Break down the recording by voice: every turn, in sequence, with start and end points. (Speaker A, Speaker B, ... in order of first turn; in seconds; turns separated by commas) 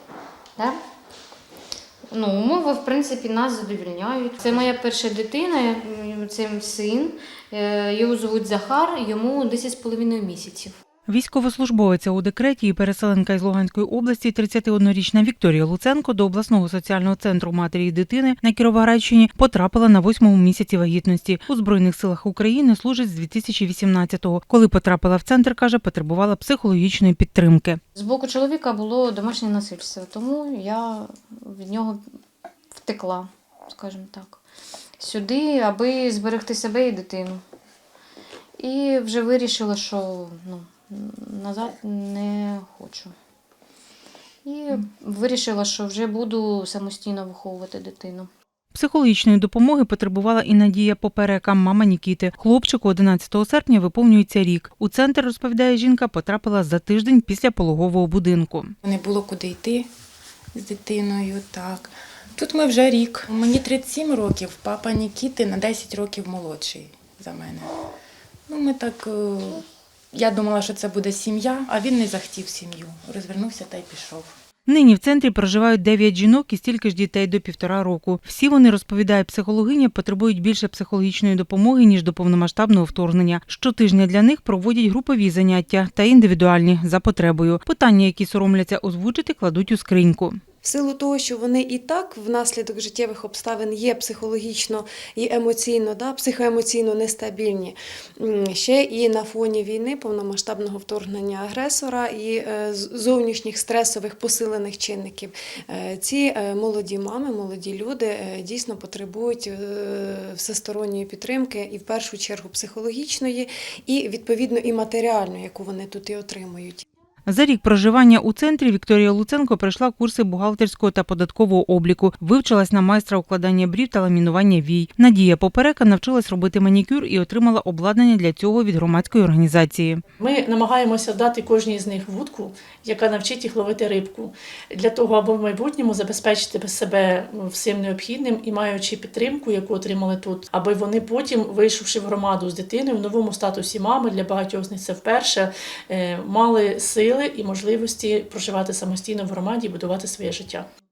Speaker A: 2.1-10.7, Speaker B: 11.1-27.8, Speaker A: 27.9-32.0, Speaker A: 32.7-34.4, Speaker A: 35.0-37.4, Speaker A: 38.6-43.1, Speaker A: 44.4-48.3, Speaker B: 48.7-58.7, Speaker C: 58.8-59.9, Speaker C: 60.5-67.7, Speaker C: 68.5-74.3, Speaker B: 74.7-90.4, Speaker D: 90.6-116.8, Speaker B: 117.2-130.0, Speaker E: 130.2-150.7